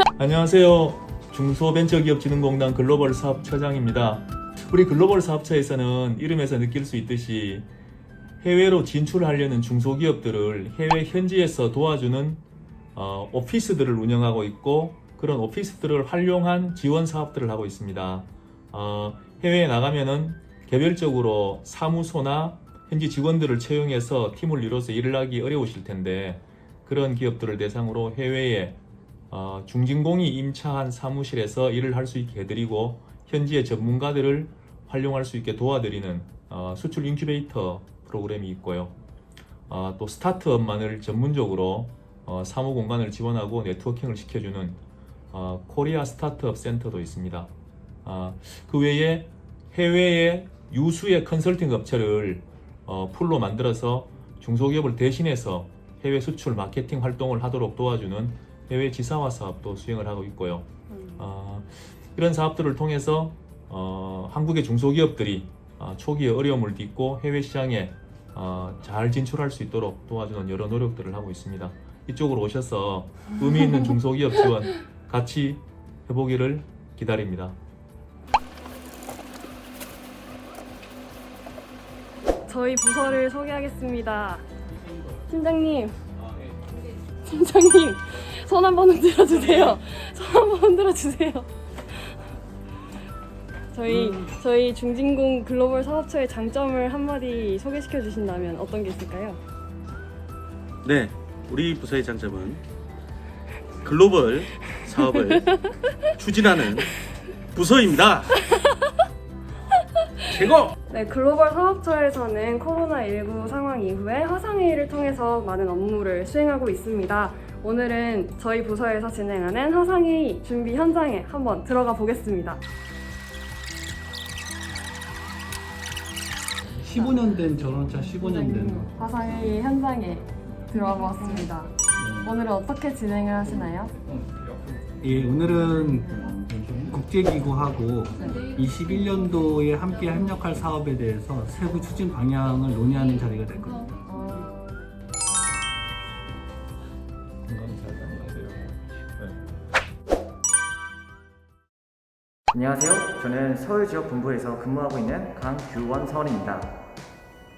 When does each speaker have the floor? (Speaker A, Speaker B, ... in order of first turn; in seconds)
Speaker A: 0.2-7.7, 8.4-12.4, 12.9-28.8, 29.3-38.9, 39.7-44.8, 45.3-47.5, 48.0-60.6, 61.2-77.5
Speaker B: 60.9-61.3, 82.5-84.4, 85.3-86.0, 87.2-91.5, 93.7-99.4, 104.8-106.9, 110.3-122.6, 126.9-127.4, 128.0-133.9, 138.2-138.5, 144.1-144.5
Speaker C: 93.9-94.2, 100.8-102.6, 103.8-105.6, 106.2-106.9, 107.5-108.3, 110.3-110.7
Speaker D: 126.8-128.9, 132.0-132.3, 135.0-144.0
Speaker E: 152.5-156.7